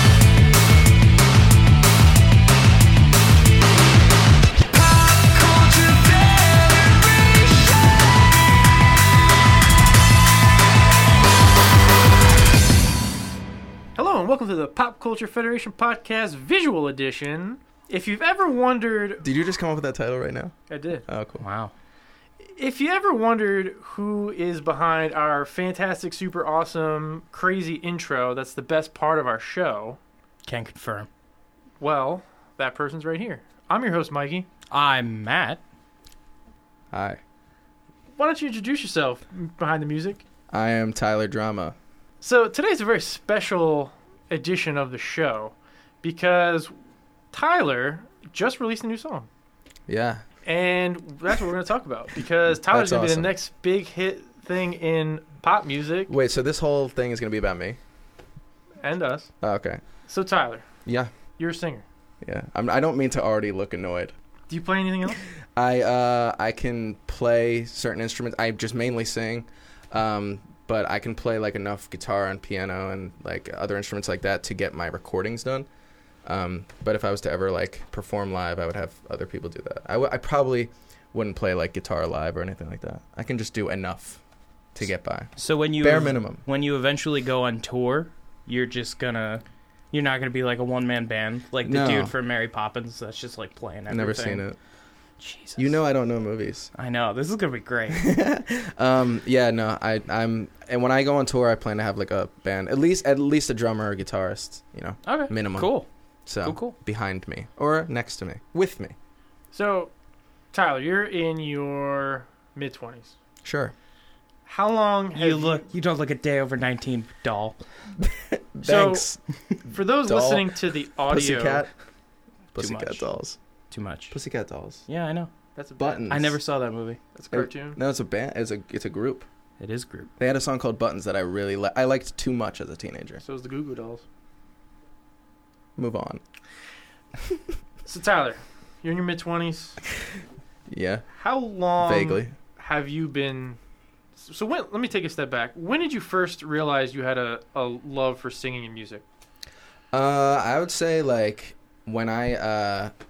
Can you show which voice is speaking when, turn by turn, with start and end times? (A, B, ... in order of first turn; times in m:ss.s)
0:05.1-0:07.7 A
0:14.0-0:19.3 A
0:19.2-0:20.5 B
0:20.7-0:21.0 A
0:21.1-0:21.4 B
0:21.4-0:21.7 C
0:22.4-0:30.0 A
0:30.4-0:31.1 C
0:31.8-0:34.5 A
0:34.7-0:35.6 C
0:36.9-0:37.2 B
0:38.2-0:40.2 A
0:40.5-0:41.7 B
0:42.2-0:46.7 A
0:47.3-0:49.3 A
0:49.9-0:50.2 B
0:50.4-0:56.1 A
0:52.5-0:53.3 B
0:56.1-0:57.8 B
0:58.8-0:59.3 A
0:59.4-0:59.8 B
1:00.1-1:00.6 A
1:00.8-1:01.1 B
1:01.4-1:01.8 A
1:02.2-1:04.1 B
1:04.5-1:05.2 A
1:05.5-1:15.7 B
1:16.2-1:24.2 B
1:24.7-1:26.4 B
1:25.4-1:34.4 C
1:31.6-1:32.1 B
1:33.9-1:34.6 B
1:35.2-1:35.8 C
1:35.6-1:36.7 B
1:36.7-1:38.1 C
1:37.9-1:45.7 B
1:45.0-1:45.9 C
1:46.2-1:48.9 B
1:46.4-1:46.8 C
1:49.5-1:49.9 A
1:50.5-1:53.1 A
1:53.4-1:53.7 B
1:54.4-1:55.6 A
1:55.1-1:57.5 C
1:58.0-2:01.7 B
1:58.6-1:59.1 A
1:59.7-2:01.6 A
2:02.5-2:03.4 B
2:02.6-2:03.1 C
2:03.7-2:04.2 C
2:04.1-2:04.8 B
2:04.9-2:05.3 C
2:05.6-2:06.0 A
2:05.8-2:06.4 B
2:06.1-2:07.0 C
2:07.1-2:07.8 A
2:07.3-2:09.2 B
2:09.6-2:10.1 C
2:10.2-2:13.2 B
2:13.2-2:14.0 A
2:15.8-2:16.2 B
2:17.8-2:19.8 A
2:20.7-2:21.0 B
2:21.2-2:23.6 A
2:21.8-2:22.3 B
2:24.2-2:29.0 A
2:29.9-2:32.9 B